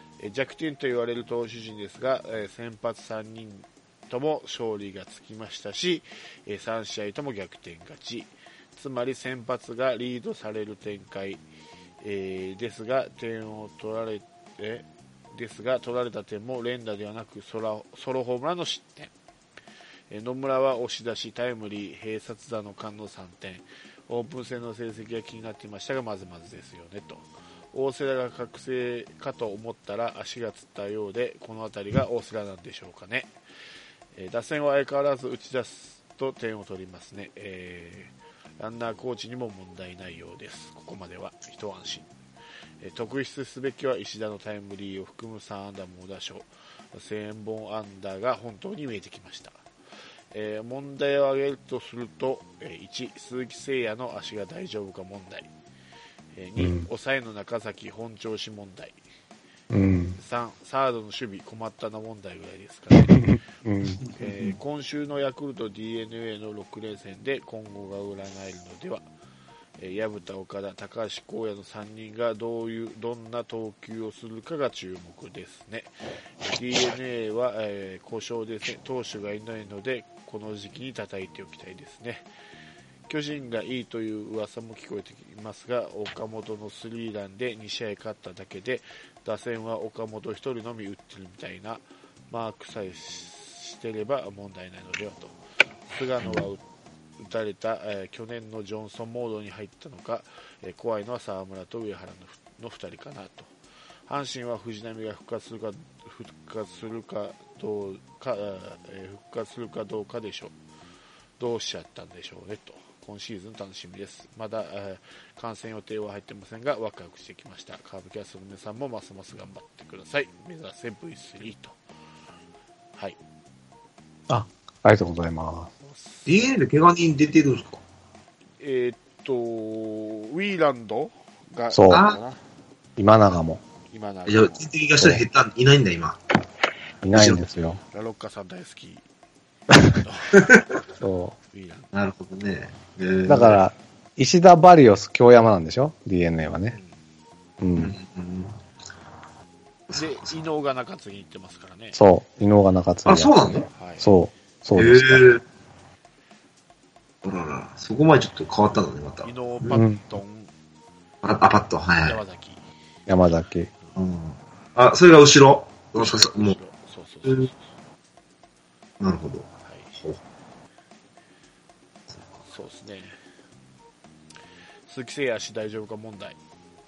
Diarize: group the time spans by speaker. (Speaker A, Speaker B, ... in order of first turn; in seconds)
Speaker A: 0.2-11.4, 12.0-19.1, 20.1-33.3, 34.1-42.1, 42.8-49.6, 50.3-55.5, 56.3-59.0, 60.2-63.3, 64.2-69.0, 69.8-82.3, 83.1-95.4, 95.9-96.6, 97.2-103.5, 104.1-110.5, 111.4-121.8, 125.8-126.5, 128.6-132.4, 133.9-134.7, 137.9-139.1, 139.9-140.5, 141.5-141.9, 146.7-147.0, 149.9-152.0, 153.8-154.1, 159.2-160.5, 162.0-162.6, 165.9-167.6, 169.6-169.9, 172.4-173.2, 174.9-176.4
Speaker B: 56.6-56.9, 59.7-60.2, 63.0-64.0, 124.3-125.7, 131.7-132.0, 133.0-133.6, 137.0-137.8, 141.0-141.3, 143.3-146.8, 147.6-147.9, 151.9-155.3, 159.7-160.0, 163.1-163.7
Speaker C: 126.3-127.8, 131.9-132.2, 134.3-136.2, 137.1-137.4, 140.4-140.6, 141.9-143.6, 147.8-148.6, 149.9-150.3, 153.1-153.7, 154.8-155.4, 157.2-159.8, 161.2-162.2, 164.0-166.6, 169.0-169.5